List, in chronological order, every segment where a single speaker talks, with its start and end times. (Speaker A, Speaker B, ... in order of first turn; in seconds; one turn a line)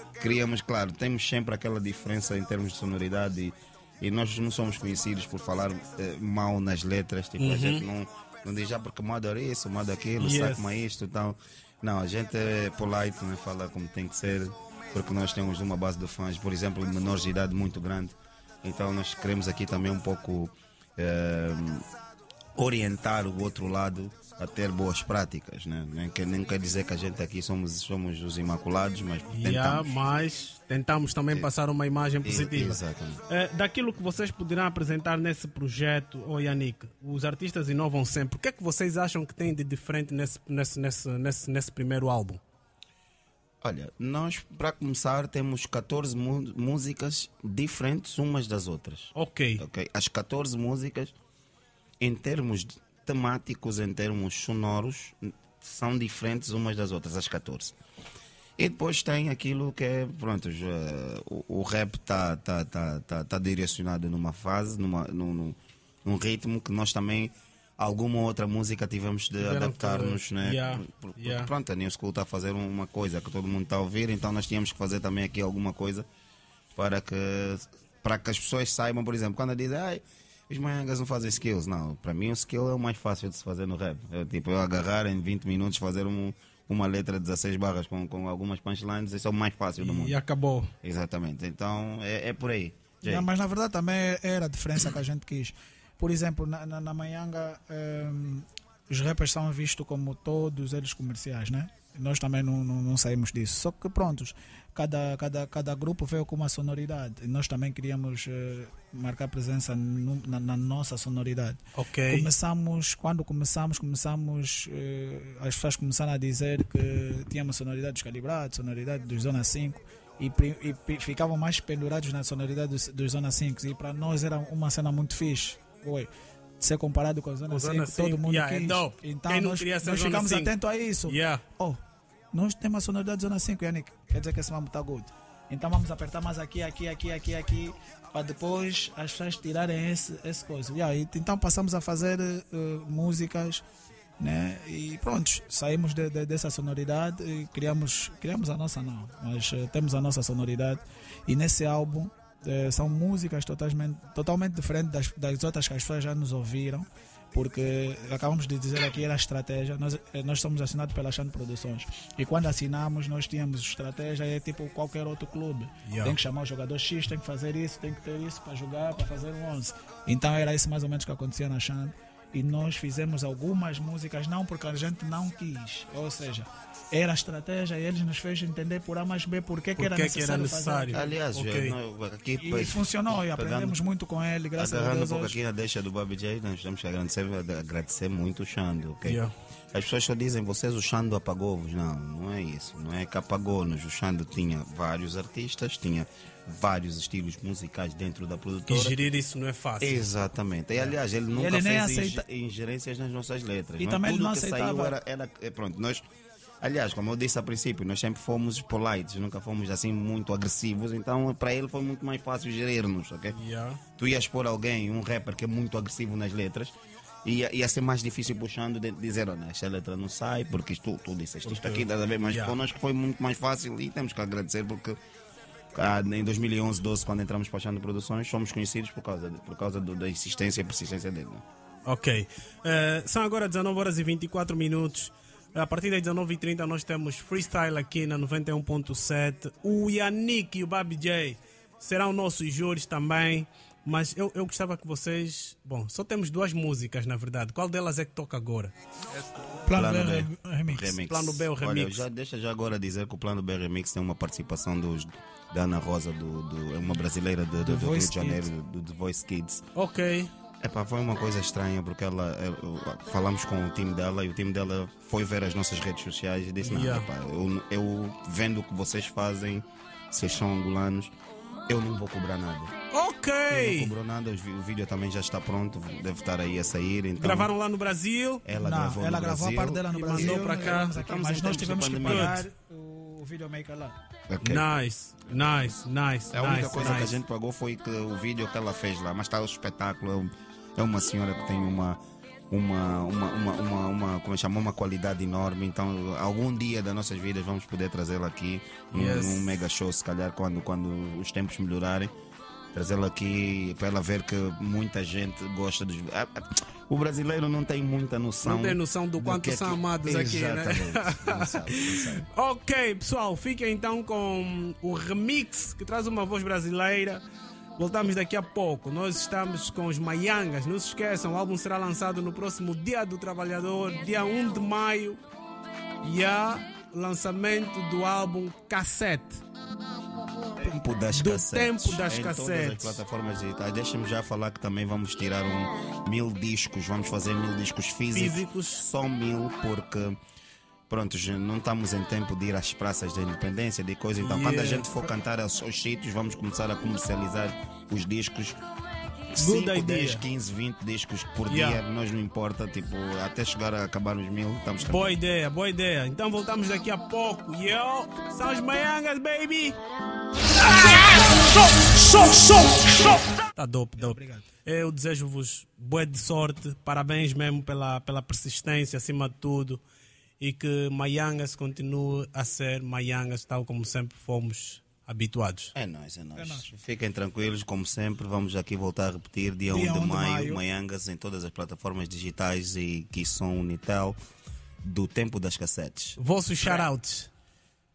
Speaker A: 0.2-21.9
Speaker B: 7.4-7.8
Speaker B: 10.2-10.8
Speaker A: 22.6-30.0
Speaker B: 29.3-42.4
Speaker A: 32.2-33.2
Speaker A: 43.6-51.1
Speaker B: 49.1-49.6
Speaker A: 52.0-57.8
Speaker A: 58.6-76.1
Speaker B: 69.4-71.5
Speaker A: 76.8-90.2
Speaker B: 89.8-90.7
Speaker A: 90.8-93.3
Speaker C: 93.0-126.1
Speaker B: 111.8-112.3
Speaker C: 126.6-131.8
Speaker B: 127.5-130.5
Speaker B: 131.1-131.4
Speaker C: 132.3-143.6
Speaker C: 144.2-181.1
Speaker B: 165.9-166.2
Speaker B: 179.8-181.8
Speaker A: 180.9-183.8
Speaker C: 182.4-185.4
Speaker A: 184.6-199.0
Speaker B: 189.0-189.3
Speaker B: 198.7-200.1
Speaker A: 199.8-206.0
Speaker C: 201.3-202.2
Speaker C: 203.8-205.0
Speaker A: 206.6-213.4
Speaker B: 213.3-213.8
Speaker A: 214.0-216.7
Speaker A: 217.2-225.0
Speaker B: 221.4-222.6
Speaker A: 225.7-231.4
Speaker B: 231.9-248.7
Speaker C: 249.6-251.0
Speaker A: 249.7-259.6
Speaker B: 251.1-252.1
Speaker C: 257.6-258.5
Speaker B: 259.8-260.3
Speaker A: 260.6-271.1
Speaker B: 266.6-267.1
Speaker A: 271.7-272.7
Speaker B: 272.9-273.9
Speaker A: 273.5-277.5
Speaker B: 277.2-278.4
Speaker A: 278.4-282.4
Speaker C: 278.5-284.0
Speaker B: 279.9-280.9
Speaker B: 282.0-282.4
Speaker A: 284.3-284.7
Speaker B: 284.4-287.2
Speaker A: 286.3-302.1
Speaker B: 298.9-299.6
Speaker A: 302.7-312.3
Speaker B: 308.4-317.2
Speaker B: 317.8-325.2
Speaker B: 326.0-329.4
Speaker A: 330.6-340.2
Speaker B: 331.1-333.0
Speaker B: 338.1-338.8
Speaker A: 340.9-348.6
Speaker B: 344.2-344.9
Speaker A: 349.3-355.2
Speaker B: 349.4-350.2
Speaker B: 351.5-351.8
Speaker B: 354.8-359.8
Speaker B: 360.7-369.8
Speaker C: 364.0-364.5
Speaker B: 370.4-375.7
Speaker A: 375.8-384.2
Speaker C: 376.4-376.7
Speaker C: 379.7-380.6
Speaker A: 384.8-386.9
Speaker B: 386.2-387.3